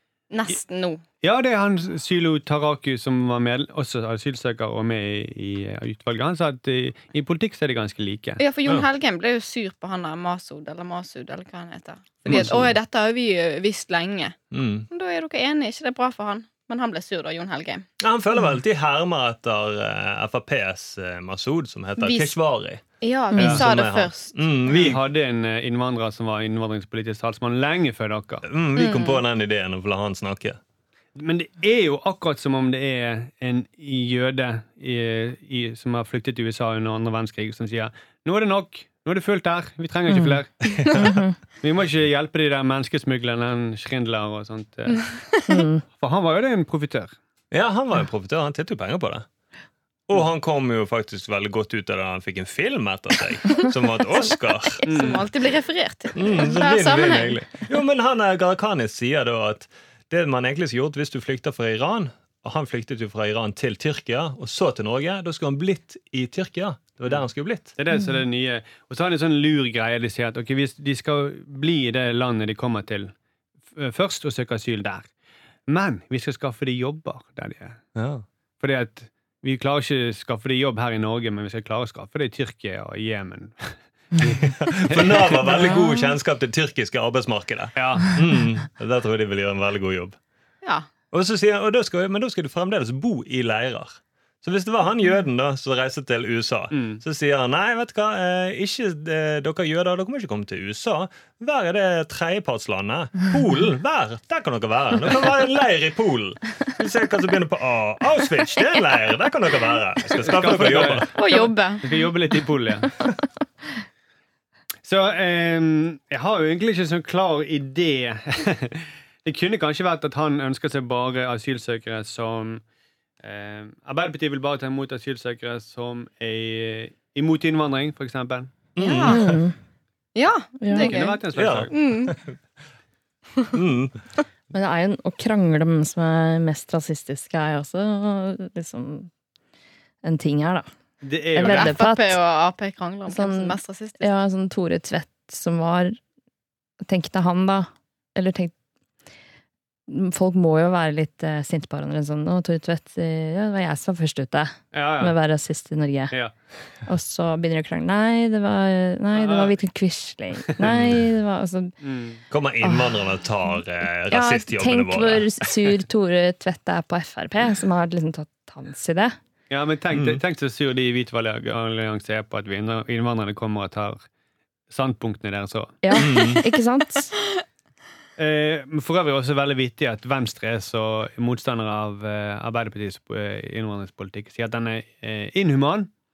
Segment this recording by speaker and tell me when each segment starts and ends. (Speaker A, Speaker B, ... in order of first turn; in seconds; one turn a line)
Speaker A: 0.3-1.0
Speaker B: 1.2-8.4
Speaker A: 8.4-14.4
Speaker C: 12.2-12.6
Speaker B: 12.3-12.5
Speaker C: 14.5-14.9
Speaker A: 14.9-17.8
Speaker C: 18.0-22.8
Speaker A: 22.0-22.3
Speaker A: 23.0-24.8
Speaker C: 23.4-25.0
Speaker B: 23.4-23.6
Speaker B: 24.7-28.4
Speaker C: 28.4-30.6
Speaker A: 28.8-29.2
Speaker B: 31.1-41.0
Speaker D: 40.1-40.4
Speaker C: 40.8-41.2
Speaker D: 40.9-41.3
Speaker B: 41.6-45.1
Speaker D: 45.5-45.8
Speaker B: 45.9-47.1
Speaker C: 47.5-49.2
Speaker C: 50.1-54.8
Speaker A: 54.8-57.5
Speaker B: 54.8-55.2
Speaker C: 56.1-67.7
Speaker B: 67.8-73.1
Speaker B: 73.7-75.1
Speaker B: 75.7-77.8
Speaker C: 78.0-78.2
Speaker B: 78.6-85.8
Speaker C: 84.4-90.2
Speaker B: 87.7-88.2
Speaker C: 91.1-111.1
Speaker B: 96.7-97.0
Speaker B: 110.1-112.9
Speaker A: 111.1-112.0
Speaker B: 114.8-122.6
Speaker B: 123.2-128.5
Speaker C: 128.8-129.4
Speaker A: 128.8-129.3
Speaker D: 129.1-129.5
Speaker A: 130.1-132.2
Speaker D: 130.6-131.0
Speaker B: 130.7-131.7
Speaker C: 131.3-132.4
Speaker C: 133.5-134.0
Speaker D: 134.5-139.1
Speaker D: 140.0-140.7
Speaker B: 141.0-141.8
Speaker D: 141.3-142.2
Speaker A: 141.4-144.1
Speaker D: 143.1-146.0
Speaker D: 146.8-148.5
Speaker D: 149.9-156.1
Speaker B: 154.7-155.2
Speaker D: 156.9-161.7
Speaker B: 159.1-159.5
Speaker C: 160.6-161.1
Speaker B: 161.8-162.2
Speaker C: 162.3-165.5
Speaker D: 162.6-162.9
Speaker D: 164.1-169.1
Speaker B: 169.5-174.0
Speaker C: 169.9-170.2
Speaker B: 174.7-175.8
Speaker D: 175.8-177.1
Speaker C: 175.9-176.4
Speaker B: 178.2-185.9